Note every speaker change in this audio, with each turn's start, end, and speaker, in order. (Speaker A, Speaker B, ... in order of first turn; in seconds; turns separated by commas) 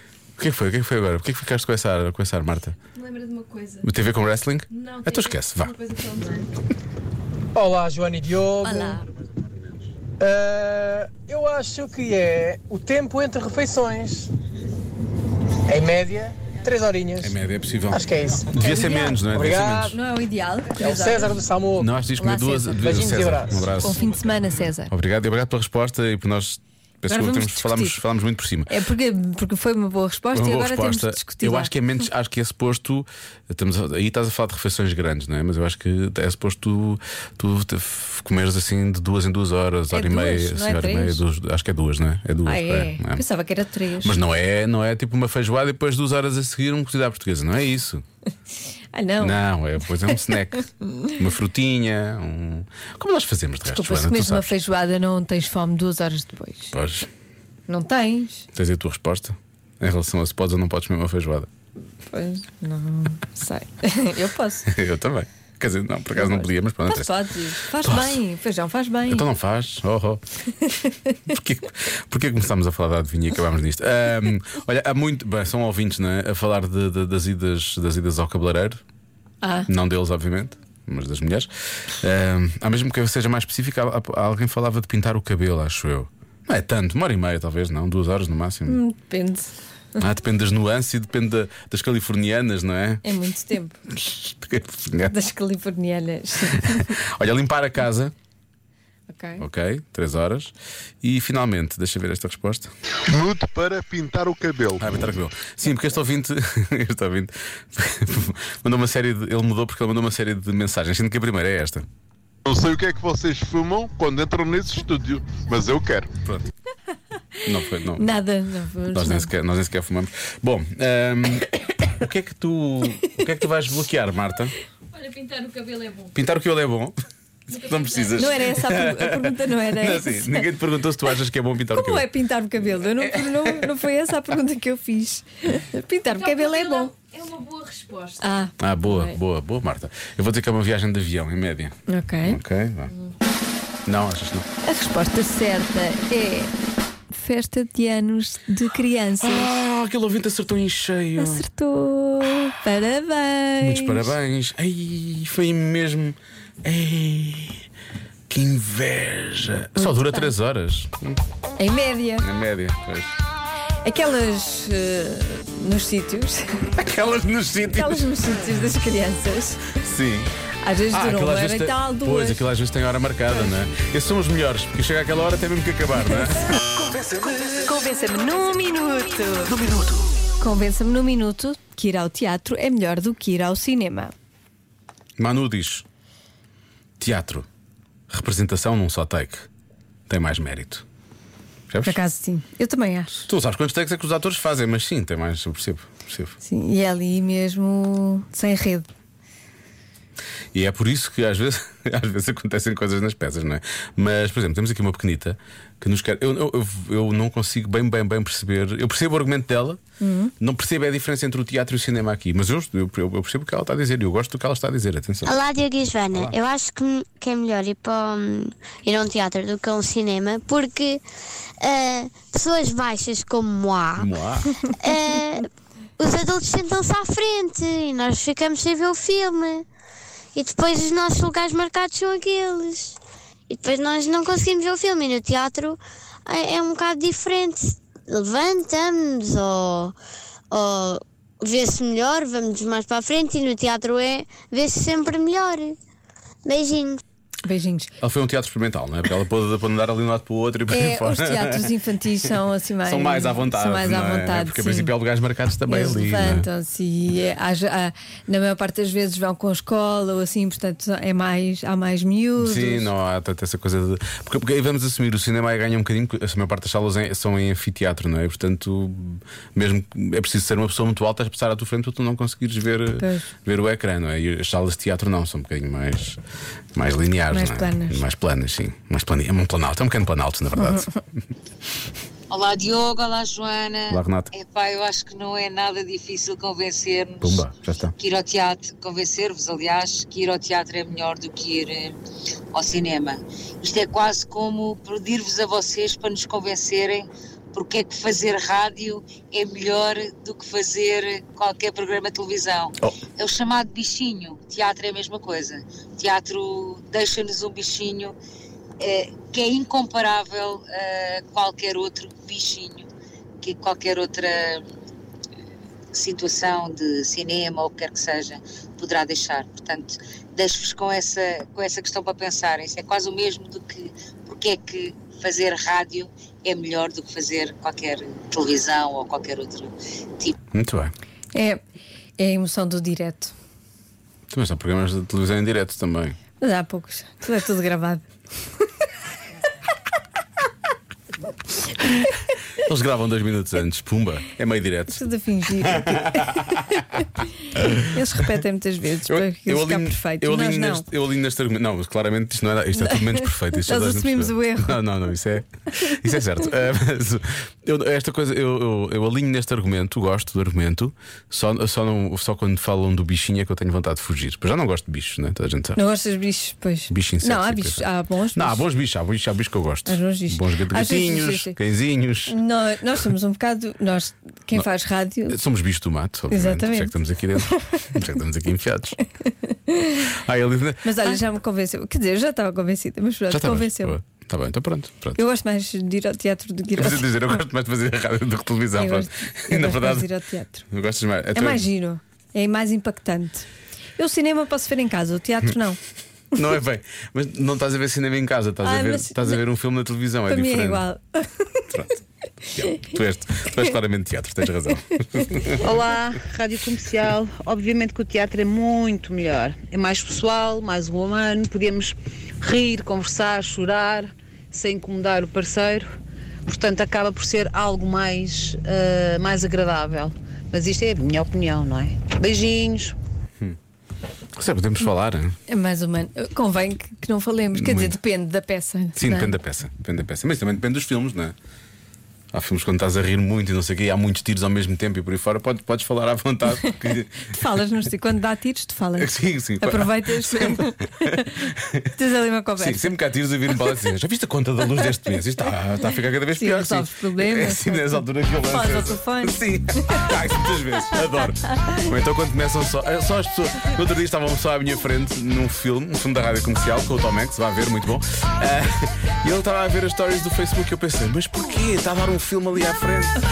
Speaker A: 0.4-2.8, Speaker B: 3.1-3.7, Speaker A: 3.8-5.8, Speaker B: 5.1-5.3, Speaker B: 5.9-6.4, Speaker C: 7.5-9.0, Speaker D: 8.6-9.0, Speaker C: 10.2-14.3, Speaker C: 15.7-17.3, Speaker A: 17.2-20.0, Speaker C: 17.9-19.9, Speaker D: 18.8-19.2, Speaker D: 19.8-21.4, Speaker C: 20.8-21.9, Speaker A: 21.7-24.1, Speaker D: 22.2-24.9, Speaker C: 22.8-23.7, Speaker A: 24.9-28.7, Speaker D: 27.1-28.0, Speaker D: 28.7-31.7, Speaker A: 30.3-43.2, Speaker D: 39.9-41.2, Speaker D: 42.4-44.2, Speaker A: 44.0-48.0, Speaker D: 48.9-49.4, Speaker A: 49.2-54.5, Speaker D: 53.7-56.7, Speaker A: 56.7-57.1, Speaker D: 57.7-58.5, Speaker A: 58.5-61.5, Speaker D: 62.1-64.7, Speaker A: 64.7-67.1, Speaker D: 66.2-69.2, Speaker A: 67.7-68.2, Speaker A: 69.1-70.2, Speaker A: 71.3-78.8, Speaker D: 79.4-79.7, Speaker A: 79.7-88.8, Speaker D: 88.7-89.5, Speaker A: 90.0-93.0, Speaker D: 93.0-93.8, Speaker A: 93.9-95.1, Speaker D: 95.1-96.9, Speaker A: 96.5-98.1, Speaker D: 99.1-99.4, Speaker A: 99.4-102.7, Speaker E: 103.1-104.8, Speaker A: 104.8-111.8, Speaker E: 112.5-116.1, Speaker A: 116.2-116.5, Speaker A: 117.4-118.1, Speaker D: 117.9-119.3, Speaker A: 118.9-124.5, Speaker B: 125.0-125.9, Speaker A: 126.1-132.1, Speaker D: 128.1-130.5, Speaker D: 131.7-136.9, Speaker A: 132.7-133.7, Speaker B: 136.4-138.2, Speaker D: 138.2-139.2, Speaker A: 138.6-142.9, Speaker D: 141.9-142.4, Speaker A: 143.8-144.5, Speaker D: 144.6-146.5, Speaker D: 147.1-149.5, Speaker A: 149.2-151.5, Speaker D: 151.2-154.1, Speaker A: 153.6-157.6, Speaker A: 158.3-161.2, Speaker D: 159.8-160.3, Speaker D: 161.6-162.3, Speaker A: 162.2-163.1, Speaker D: 163.8-166.7, Speaker A: 166.8-168.1, Speaker D: 167.7-169.7, Speaker A: 169.8-170.3, Speaker D: 170.6-172.4, Speaker A: 170.9-177.5, Speaker D: 177.5-179.6, Speaker A: 179.5-179.9, Speaker D: 180.4-184.1, Speaker A: 185.2-185.8, Speaker A: 187.0-187.4, Speaker A: 188.1-189.4, Speaker A: 190.1-190.8, Speaker A: 191.7-192.0, Speaker D: 191.8-193.2, Speaker A: 193.3-196.3, Speaker D: 196.4-198.9, Speaker A: 200.5-209.8, Speaker D: 210.0-210.3, Speaker A: 210.4-215.4, Speaker F: 215.2-221.0, Speaker A: 216.1-216.4, Speaker F: 221.6-224.1, Speaker A: 223.9-224.6, Speaker F: 224.7-225.4, Speaker F: 226.0-229.6, Speaker F: 230.3-233.0, Speaker F: 233.5-239.9, Speaker F: 240.5-245.8, Speaker F: 246.4-247.0, Speaker D: 247.4-247.9, Speaker A: 248.0-251.7, Speaker D: 250.7-254.9, Speaker A: 252.8-256.5, Speaker D: 255.7-262.9, Speaker A: 262.4-276.2, Speaker D: 273.0-273.3, Speaker A: 276.7-280.9, Speaker D: 277.3-278.0, Speaker G: 282.3-292.0, Speaker A: 283.9-284.3, Speaker A: 287.2-287.9, Speaker G: 292.5-308.1, Speaker G: 308.8-312.9, Speaker G: 313.4-314.7, Speaker G: 315.9-330.4, Speaker A: 330.5-330.9, Speaker D: 331.3-331.6, Speaker D: 332.2-333.3, Speaker A: 334.3-336.2, Speaker D: 336.4-338.0, Speaker A: 342.6-345.0, Speaker D: 344.9-347.0, Speaker A: 345.6-346.6, Speaker A: 347.6-348.0, Speaker D: 347.7-350.9, Speaker A: 349.1-365.8, Speaker D: 352.8-354.8, Speaker D: 365.8-368.6, Speaker A: 366.9-372.4, Speaker D: 369.9-371.6, Speaker D: 372.3-375.4, Speaker A: 375.3-379.0, Speaker D: 376.3-378.0, Speaker D: 379.7-380.1, Speaker A: 380.1-381.2, Speaker D: 380.8-384.0, Speaker A: 383.3-385.2, Speaker D: 385.1-387.1, Speaker A: 386.8-390.1, Speaker D: 388.7-390.6, Speaker A: 390.7-391.7, Speaker D: 391.3-393.4, Speaker D: 394.0-395.8, Speaker A: 396.3-400.9, Speaker D: 398.6-399.4, Speaker D: 400.3-401.7, Speaker A: 401.7-405.7, Speaker H: 405.6-415.9, Speaker H: 416.5-422.9, Speaker A: 424.4-425.4, Speaker D: 425.5-429.3, Speaker A: 427.5-428.0, Speaker A: 428.9-431.3, Speaker A: 432.3-437.3, Speaker D: 437.3-443.0, Speaker A: 439.0-441.9, Speaker A: 442.6-463.2, Speaker D: 446.3-450.2